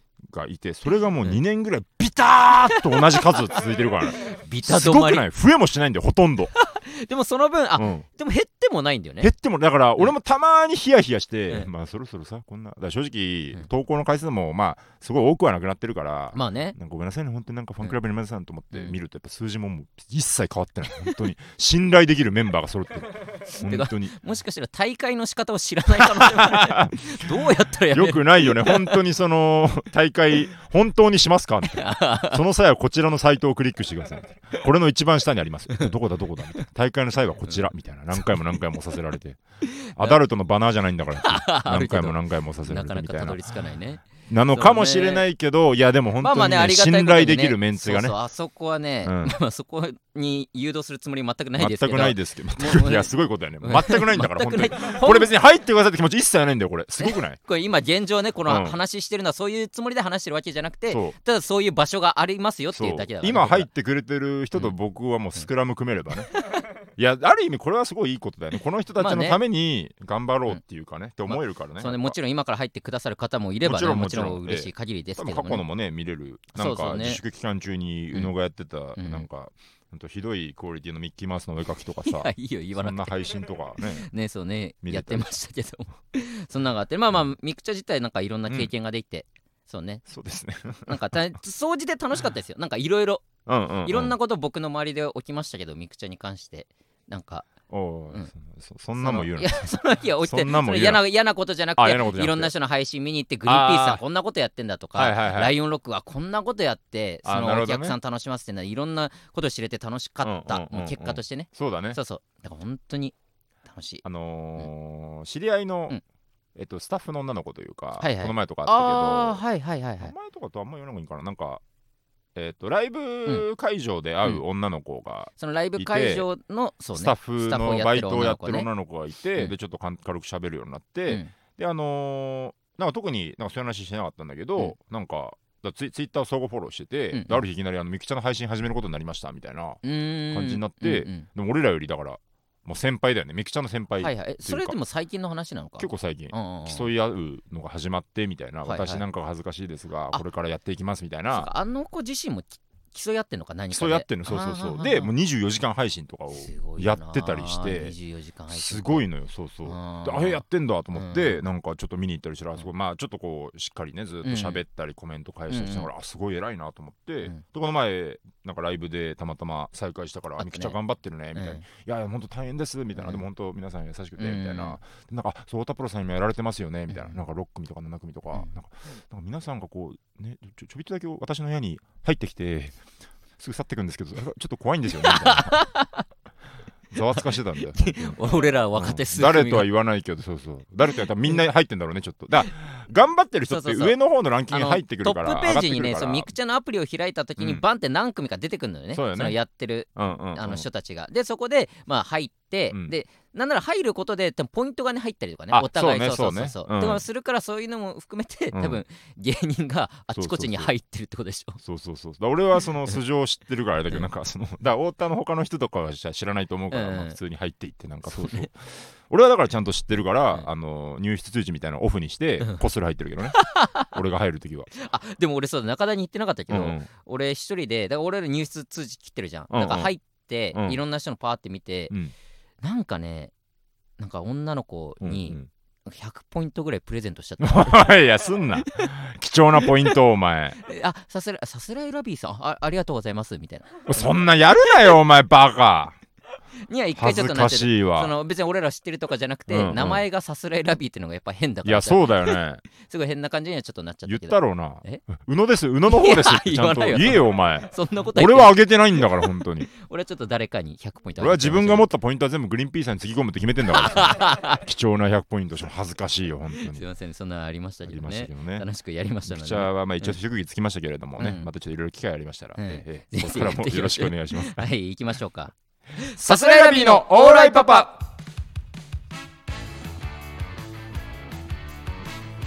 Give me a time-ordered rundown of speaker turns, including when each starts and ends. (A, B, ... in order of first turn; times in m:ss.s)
0:00.2-0:06.5 A
0:02.7-0:03.6 B
0:04.1-0:05.2 B
0:06.6-0:09.3 B
0:07.8-0:08.0 A
0:09.2-0:24.2 A
0:16.3-0:16.8 B
0:23.5-0:29.0 B
0:26.0-0:39.4 A
0:31.6-0:32.4 B
0:37.5-0:38.4 B
0:39.7-0:40.2 B
0:39.9-0:43.5 A
0:41.2-0:45.2 B
0:44.3-0:48.2 A
0:46.2-0:53.1 B
0:49.0-0:49.4 A
0:51.6-0:57.4 A
0:53.6-0:55.3 B
0:57.0-1:03.7 B
0:58.5-0:58.8 A
1:00.9-1:01.2 A
1:02.7-1:06.3 A
1:07.0-1:12.2 A
1:09.0-1:09.4 B
1:11.3-1:15.6 B
1:13.6-1:24.1 A
1:16.5-1:17.2 B
1:19.0-1:19.3 B
1:22.0-1:23.1 B
1:23.9-1:30.0 B
1:24.8-1:25.3 A
1:30.1-1:31.2 A
1:30.9-1:33.3 B
1:33.5-1:34.2 A
1:33.8-1:37.5 B
1:37.7-1:39.6 A
1:39.0-1:53.2 B
1:40.2-1:41.0 A
1:41.8-1:42.5 A
1:43.5-1:44.0 A
1:45.0-1:45.6 A
1:47.2-1:48.0 A
1:50.2-1:52.0 A
1:53.7-1:54.0 B
1:54.0-1:56.0 A
1:56.6-1:59.4 A
1:58.0-2:00.1 B
2:00.0-2:01.6 A
2:02.4-2:06.2 A
2:05.4-2:08.7 B
2:07.0-2:24.8 A
2:11.1-2:11.3 B
2:17.1-2:17.4 B
2:19.8-2:21.3 B
2:24.0-2:26.9 B
2:25.8-2:31.5 A
2:28.6-2:29.0 B
2:31.3-2:35.1 B
2:33.7-2:37.9 A
2:36.3-2:39.0 B
2:38.5-3:02.8 A
2:39.6-2:41.4 B
2:44.2-2:44.6 B
2:45.5-2:45.9 B
2:50.4-2:50.8 B
2:51.4-2:51.7 B
2:52.9-2:53.2 B
2:54.2-2:54.8 B
2:56.9-2:57.2 B
3:03.4-3:05.6 A
3:05.0-3:06.1 B
3:06.9-3:08.2 A
3:07.1-3:09.7 B
3:08.7-3:16.3 A
3:13.5-3:14.0 B
3:14.5-3:31.6 B
3:17.4-3:17.6 A
3:18.9-3:19.4 A
3:20.0-3:20.7 A
3:25.5-3:27.0 A
3:28.5-3:28.8 A
3:30.1-3:30.7 A
3:31.6-3:43.4 A
3:36.7-3:37.2 B
3:38.1-3:38.5 B
3:43.2-3:43.9 B
3:43.9-3:44.7 A
3:44.8-3:52.0 B
3:46.5-3:46.9 A
3:49.5-3:49.9 A
3:50.5-3:50.8 A
3:52.6-3:53.3 B
3:54.0-3:58.0 B
3:55.0-3:55.5 A
3:57.4-4:00.6 A
3:59.6-4:00.0 B
4:00.6-4:04.1 B
4:03.9-4:06.0 A
4:06.7-4:15.0 B
4:07.0-4:08.1 A
4:09.5-4:10.0 A
4:11.6-4:12.6 A
4:14.0-4:19.7 A
4:15.9-4:21.9 B
4:21.2-4:26.8 A
4:23.7-4:24.6 B
4:26.6-4:30.2 B
4:27.9-4:28.7 A
4:29.3-4:34.7 A
4:31.2-4:31.5 B
4:32.6-4:37.9 B
4:36.0-4:38.0 A